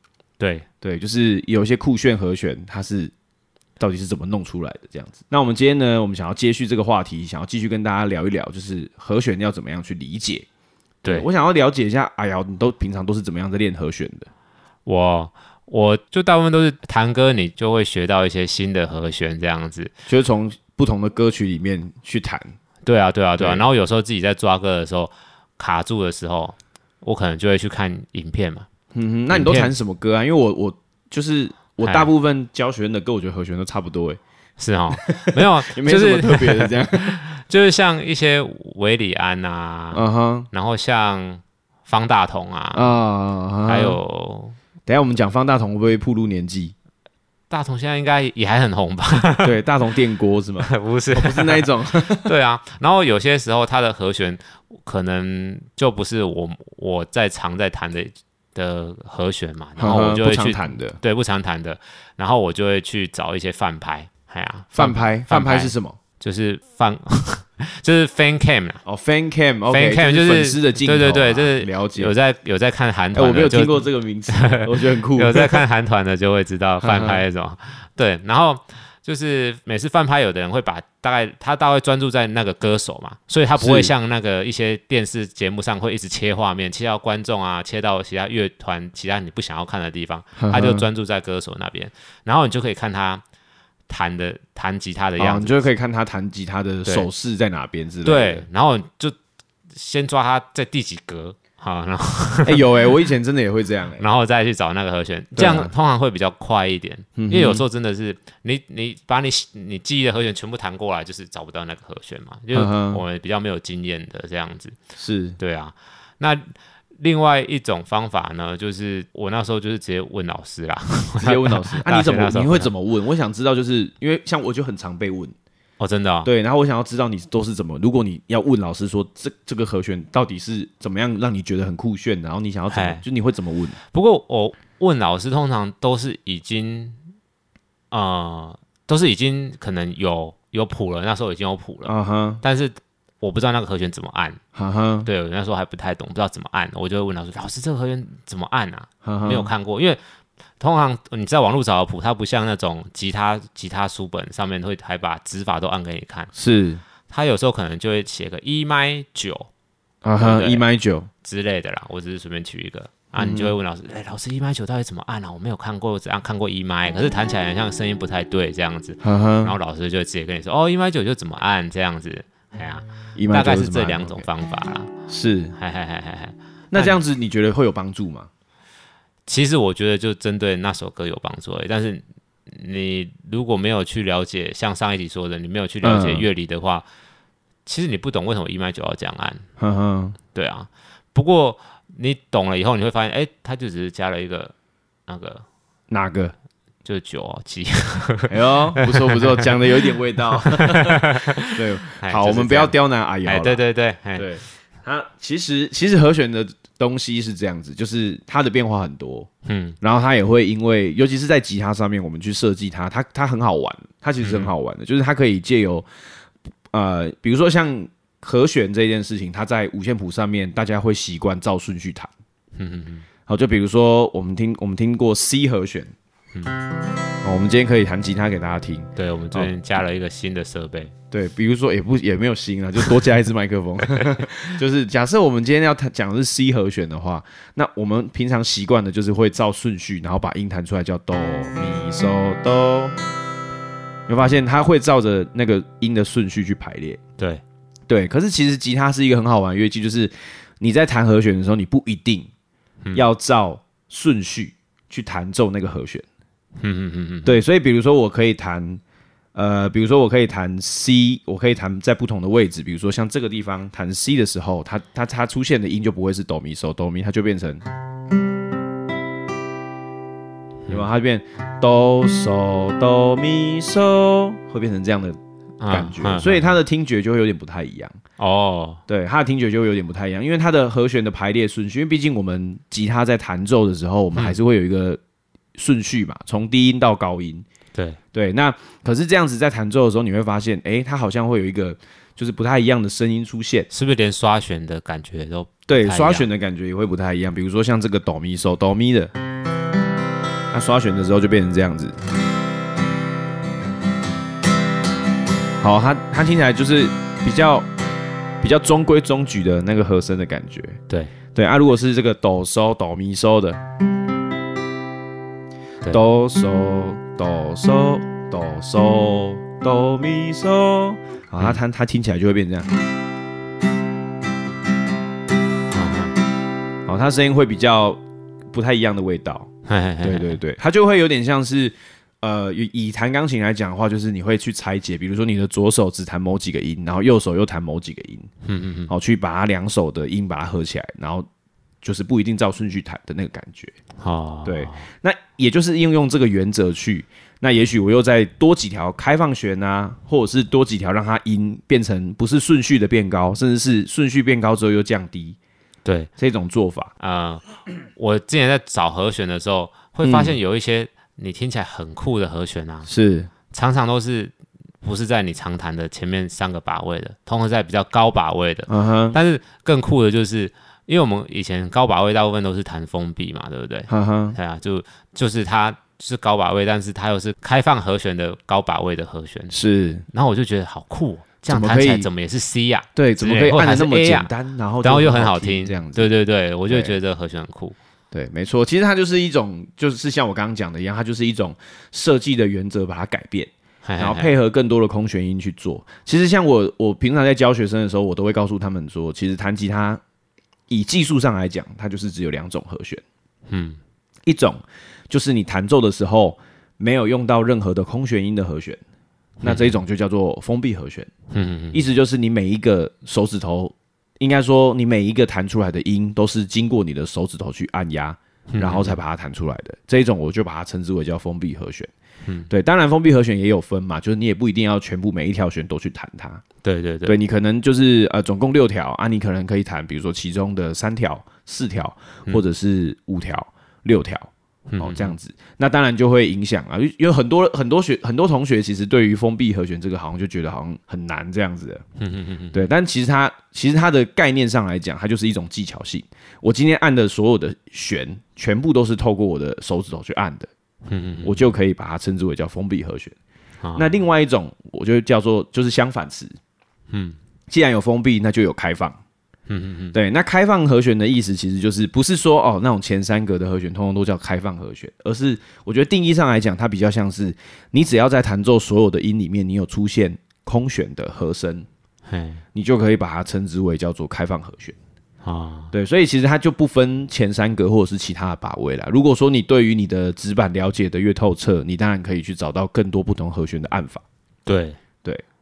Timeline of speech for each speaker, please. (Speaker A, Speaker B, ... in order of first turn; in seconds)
Speaker A: 0.4-0.7, 14.8-19.9, 22.8-28.7, 29.3-29.7, 31.8-32.1, 34.6-42.9, 43.7-44.5, 47.5-49.5, 50.6-68.8, 69.7-93.2, 93.9-95.6, 98.0-99.2, 99.7-102.7, 104.0-114.8, 115.4-122.7, 125.8-126.3, 132.7-133.0, 133.9-136.9, 137.9-144.4, 145.0-150.0, 150.6-156.3, 157.1-159.5, 160.2-160.6, 161.2-174.9, 175.6-177.0, 179.3-186.8, 187.7-189.4, 190.3-194.5, 195.1-195.4, 196.8-199.5, 200.4-202.7, 203.2-204.3, 209.4-209.8, 214.2-214.5, 222.6-223.1, 228.9-230.9, 233.8-234.4, 256.6-257.4, 275.6-276.5, 278.2-278.8, 287.7-288.0, 293.7-296.3, 325.7-326.1, 329.6-330.4, 338.4-338.9, 344.0-344.8, 355.8-356.1, 357.0-362.9, 363.5-379.5, 380.1-384.3, 384.8-387.8, 393.8-394.3, 403.5-403.8, 409.4-409.7, 411.3-411.8, 418.5-418.9, 426.6-427.2, 434.7-435.1, 442.0-442.6, 450.9-451.4, 453.6-453.9, 456.9-457.2, 459.5-459.9, 472.1-472.4, 475.2-475.7, 484.4-484.8
Speaker B: 0.8-3.1, 3.8-10.4, 11.0-14.3, 20.1-22.5, 23.4-23.6, 28.9-34.2, 34.9-37.2, 39.9-40.5, 42.7-44.0, 44.9-46.7, 49.4-52.3, 59.8-61.0, 64.7-66.0, 68.8-72.1, 73.1-75.6, 76.8-77.2, 83.6-83.9, 90.4-90.8, 95.2-98.5, 102.4-104.0, 105.3-105.7, 107.2-107.6, 112.5-113.0, 115.0-115.4, 121.2-125.3, 126.2-133.8, 141.8-142.4, 144.5-145.1, 149.0-149.5, 156.3-156.8, 160.0-161.1, 163.2-163.5, 169.0-169.5, 173.2-174.2, 175.1-175.5, 176.7-178.3, 185.8-186.3, 189.6-190.2, 195.9-196.3, 198.3-203.6, 204.1-209.3, 209.8-215.8, 216.7-222.1, 223.3-225.9, 227.2-229.5, 231.1-242.9, 244.1-247.0, 247.9-252.3, 252.9-256.0, 257.2-258.8, 259.3-267.6, 270.7-275.2, 275.7-277.9, 278.9-285.0, 285.5-287.4, 288.1-293.7, 295.7-299.1, 300.5-302.0, 305.6-307.7, 308.4-310.8, 311.3-313.6, 315.9-322.7, 326.9-328.0, 328.5-329.5, 330.0-338.3, 338.9-341.3, 341.8-343.8, 344.4-355.4, 356.2-356.9, 360.0-360.4, 362.9-363.3, 368.7-369.2, 373.9-374.4, 379.5-380.1, 381.5-382.1, 382.9-386.1, 386.7-387.0, 388.1-400.0, 400.7-403.0, 404.2-404.6, 405.1-408.8, 409.4-411.1, 411.7-421.9, 422.5-426.4, 427.1-441.8, 442.5-450.5, 451.2-453.1, 453.7-456.3, 457.5-459.0, 459.9-471.7, 472.5-474.7, 475.7-484.0